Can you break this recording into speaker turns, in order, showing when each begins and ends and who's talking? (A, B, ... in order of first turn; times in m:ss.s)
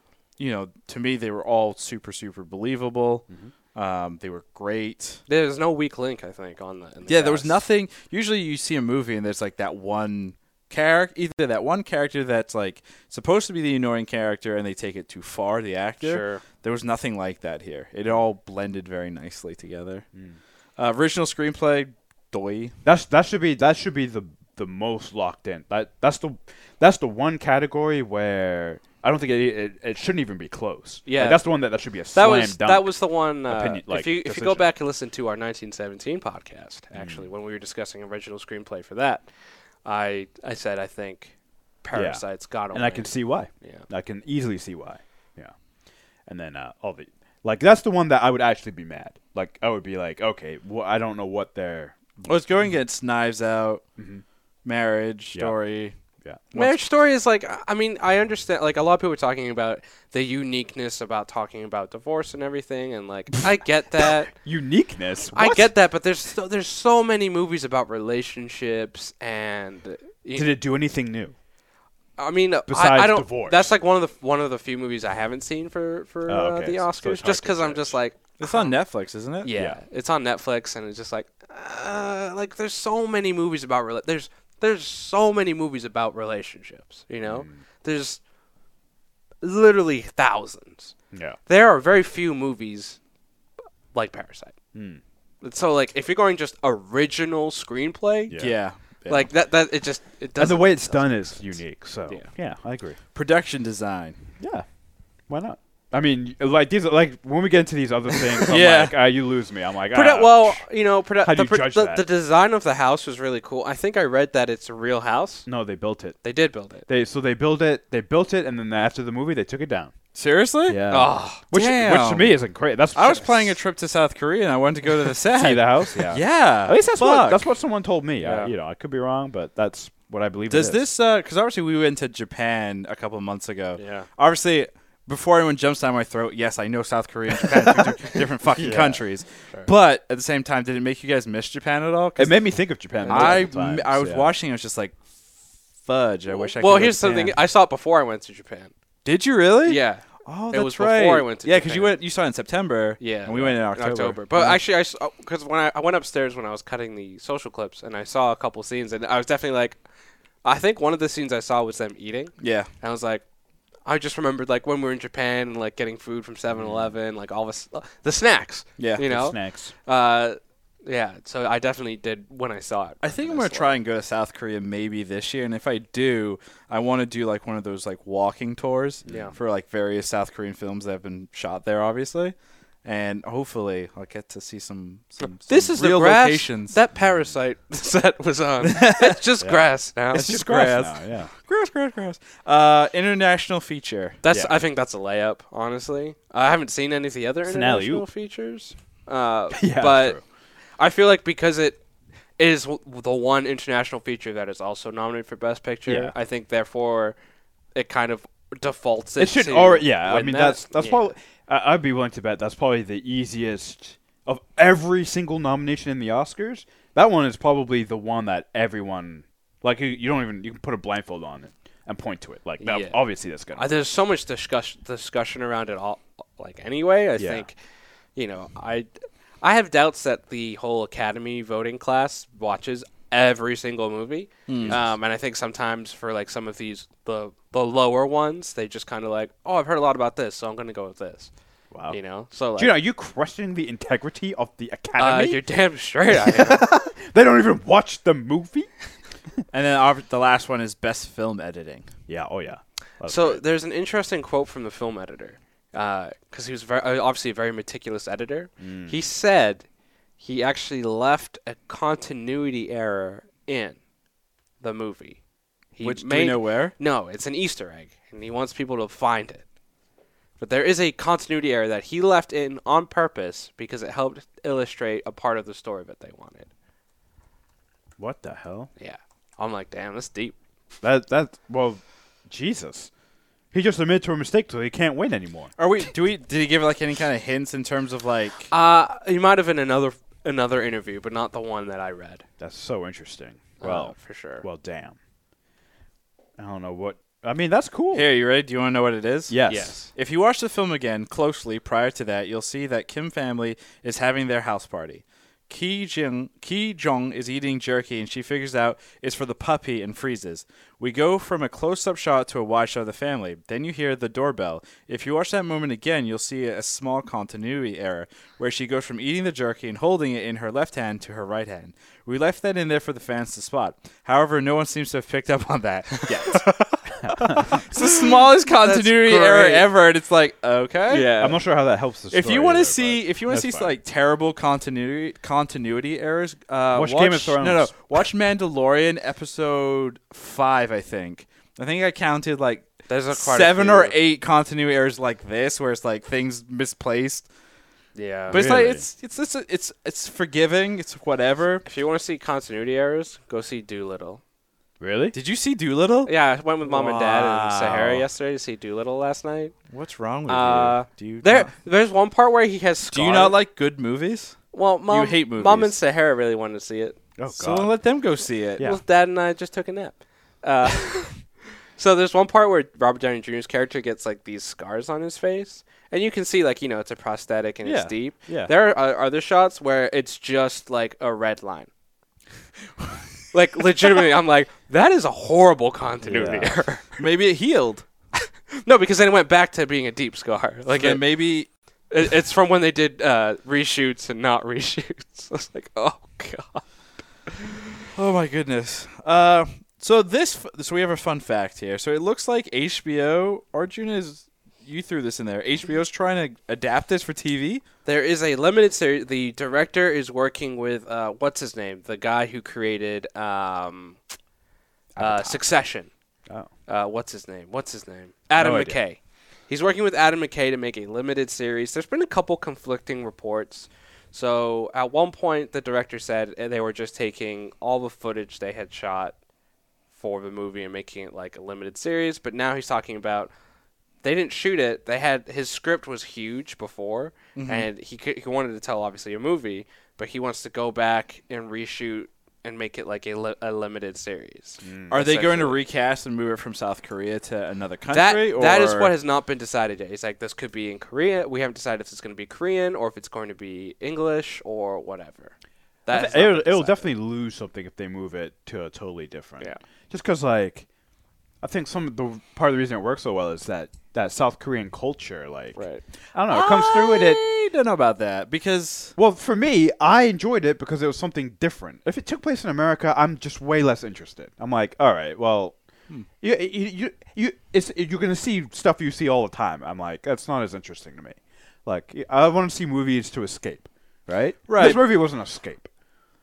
0:00.4-0:05.2 A
0:05.3-0:07.6 B
0:07.1-0:20.0 A
0:16.0-0:16.4 B
0:20.8-0:22.8 A
0:22.8-0:32.9 C
0:31.0-0:31.4 B
0:32.1-0:39.3 B
0:33.4-0:34.6 C
0:36.9-0:37.3 C
0:39.8-0:43.8 B
0:41.9-0:45.5 C
0:46.3-0:52.3 C
0:52.2-0:53.8 A
0:54.0-0:54.2 C
0:54.6-0:56.0 A
0:56.5-0:56.8 A
0:56.5-1:04.3 B
1:04.0-1:05.7 C
1:05.3-1:10.5 B
1:10.3-1:11.3 C
1:12.2-1:18.7 B
1:12.7-1:13.7 C
1:16.3-1:18.0 C
1:18.4-1:19.5 A
1:19.4-1:28.2 B
1:19.5-1:19.8 C
1:27.2-1:27.6 C
1:29.4-1:30.9 B
1:31.1-1:31.4 C
1:31.5-1:33.0 B
1:33.9-1:34.5 B
1:34.7-1:35.0 C
1:35.4-1:38.5 B
1:38.3-1:38.5 C
1:38.4-1:39.3 A
1:39.1-1:41.4 B
1:40.4-1:43.0 C
1:43.1-1:44.2 A
1:44.4-1:44.6 C
1:45.3-1:50.6 C
1:48.5-1:48.9 A
1:49.9-1:55.4 B
1:51.2-1:52.0 C
1:55.4-1:56.2 C
1:56.2-1:56.9 B
1:56.9-1:59.9 C
2:00.1-2:00.8 A
2:00.7-2:03.5 C
2:00.9-2:01.4 B
2:01.5-2:02.4 A
2:02.9-2:07.4 A
2:05.3-2:10.8 C
2:08.2-2:08.5 B
2:10.5-2:22.4 A
2:13.8-2:14.1 B
2:17.7-2:17.9 C
2:18.6-2:19.0 C
2:22.2-2:24.3 C
2:23.0-2:23.5 B
2:23.0-2:25.0 A
2:25.8-2:27.3 A
2:26.3-2:28.7 B
2:27.0-2:27.3 C
2:29.0-2:34.5 A
2:29.6-2:32.0 B
2:33.0-2:39.8 B
2:40.4-2:43.2 B
2:42.4-2:42.7 A
2:43.8-2:53.8 B
2:46.5-2:46.9 C
2:48.8-2:49.0 A
2:49.0-2:49.7 C
2:53.0-3:06.8 A
2:59.0-2:59.3 C
2:59.0-2:59.3 B
3:05.5-3:10.4 B
3:08.6-3:09.2 A
3:09.4-3:11.3 C
3:10.1-3:14.2 A
3:14.2-3:20.2 B
3:14.3-3:14.5 C
3:17.4-3:18.0 C
3:19.5-3:20.2 C
3:20.8-3:21.8 B
3:22.4-3:27.2 B
3:25.9-3:26.1 C
3:27.7-3:31.0 B
3:29.2-3:43.7 C
3:42.6-3:43.0 B
3:43.6-3:47.6 B
3:47.2-3:47.5 C
3:48.1-3:48.9 B
3:49.4-4:01.3 B
3:54.5-3:54.8 A
3:54.5-3:55.0 C
4:01.7-4:02.0 C
4:01.9-4:02.8 B
4:02.6-4:05.4 C
4:05.0-4:06.7 B
4:06.1-4:08.7 C
4:09.5-4:11.9 A
4:12.1-4:13.4 C
4:13.0-4:19.6 B
4:18.6-4:19.0 C
4:20.2-4:23.8 B
4:24.6-4:25.2 B
4:25.7-4:29.4 B
4:25.8-4:26.7 A
4:30.4-4:36.5 B
4:38.0-4:38.7 C
4:38.8-4:40.3 B
4:40.8-4:42.9 C
4:43.5-4:45.6 C
4:45.6-4:48.5 A
4:48.5-4:52.2 B
4:52.4-4:55.0 C
4:53.6-4:54.4 B
4:56.4-4:58.0 C
4:57.9-5:31.4 A
4:59.3-4:59.8 C
4:59.5-4:59.9 B
5:26.1-5:27.6 C
5:27.8-5:29.7 B
5:30.9-5:31.3 B
5:31.1-5:33.7 C
5:32.1-5:47.3 A
5:36.7-5:37.7 C
5:42.9-5:44.0 B
5:47.9-5:48.4 B
5:48.3-5:48.8 C
5:48.3-5:51.6 A
5:51.6-5:54.2 B
5:54.8-5:55.1 C
5:55.1-5:56.1 A
5:56.1-5:59.6 B
5:56.6-5:57.7 A
5:57.4-5:58.0 C
5:59.7-6:01.5 A
6:00.3-6:03.4 B
6:02.9-6:04.4 A
6:04.5-6:07.0 B
6:04.9-6:05.7 A
6:07.2-6:07.7 C
6:07.3-6:08.7 A
6:08.6-6:21.7 B
6:17.6-6:18.5 A
6:23.3-6:27.0 B
6:26.0-6:26.6 C
6:27.0-6:27.8 A
6:28.6-6:31.0 B
6:30.7-6:31.5 A
6:31.9-6:36.6 B
6:37.2-6:37.8 B
6:37.9-6:47.6 A
6:47.8-6:54.0 B
6:55.0-6:55.4 C
6:55.0-6:55.9 B
6:56.7-7:09.1 B
6:58.4-6:58.8 C
7:09.9-7:13.3 B
7:14.0-7:25.6 B
7:17.3-7:17.7 A
7:24.6-7:25.0 C
7:24.9-7:28.9 A
7:27.9-7:35.3 B
7:35.8-7:36.9 B
7:35.9-7:40.7 C
7:41.4-7:45.6 C
7:45.6-7:45.8 B
7:46.1-7:47.2 C
7:46.3-7:48.9 A
7:49.0-7:55.6 C
7:56.1-8:05.7 C
8:04.5-8:04.8 A